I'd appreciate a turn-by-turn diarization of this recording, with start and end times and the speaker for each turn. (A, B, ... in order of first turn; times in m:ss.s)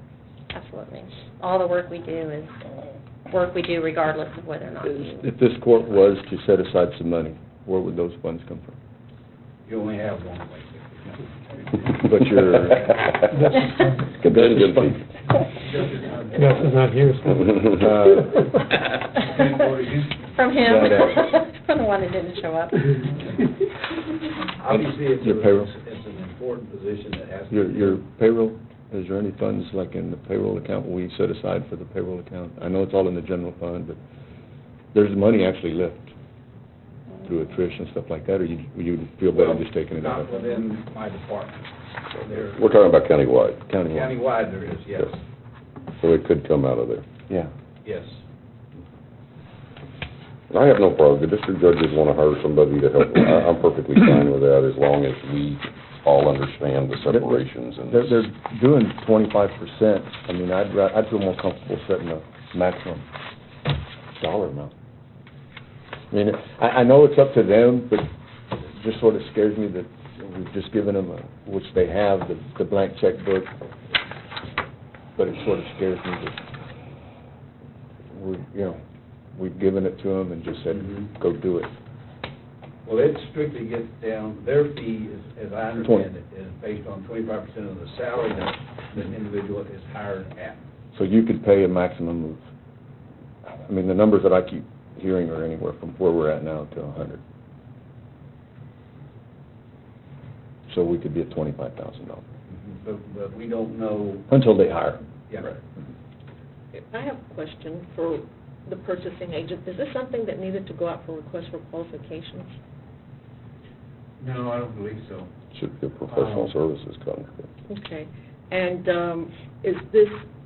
0:00.5-0:05.1 A
0:04.8-0:08.8 B
0:09.6-0:12.0 C
0:11.9-0:13.5 B
0:13.5-0:15.0 D
0:14.2-0:15.0 B
0:15.6-0:16.7 C
0:16.4-0:18.4 E
0:17.6-0:18.4 B
0:19.2-0:20.1 C
0:20.3-0:23.1 A
0:20.6-0:21.3 B
0:24.5-0:28.0 C
0:24.7-0:25.7 B
0:27.5-0:34.0 B
0:34.9-0:36.1 B
0:37.2-0:40.3 B
0:39.3-0:42.6 C
0:42.5-0:43.6 D
0:43.7-0:44.1 B
0:43.9-0:45.2 C
0:46.0-0:47.0 D
0:47.8-0:48.2 C
0:50.5-0:58.1 D
0:57.1-1:03.0 B
1:04.2-1:04.7 B
1:06.1-1:13.5 B
1:15.2-1:16.4 B
1:18.1-1:18.8 B
1:19.3-1:21.7 B
1:20.7-1:21.1 C
1:22.8-1:30.6 C
1:30.9-1:32.4 B
1:33.5-1:37.2 B
1:40.7-1:42.2 B
1:42.5-1:44.3 C
1:44.3-1:45.0 B
1:45.3-1:45.6 C
1:46.8-1:52.5 F
1:54.2-1:55.3 C
1:55.5-1:57.5 D
1:56.1-1:56.5 C
1:57.7-2:00.2 F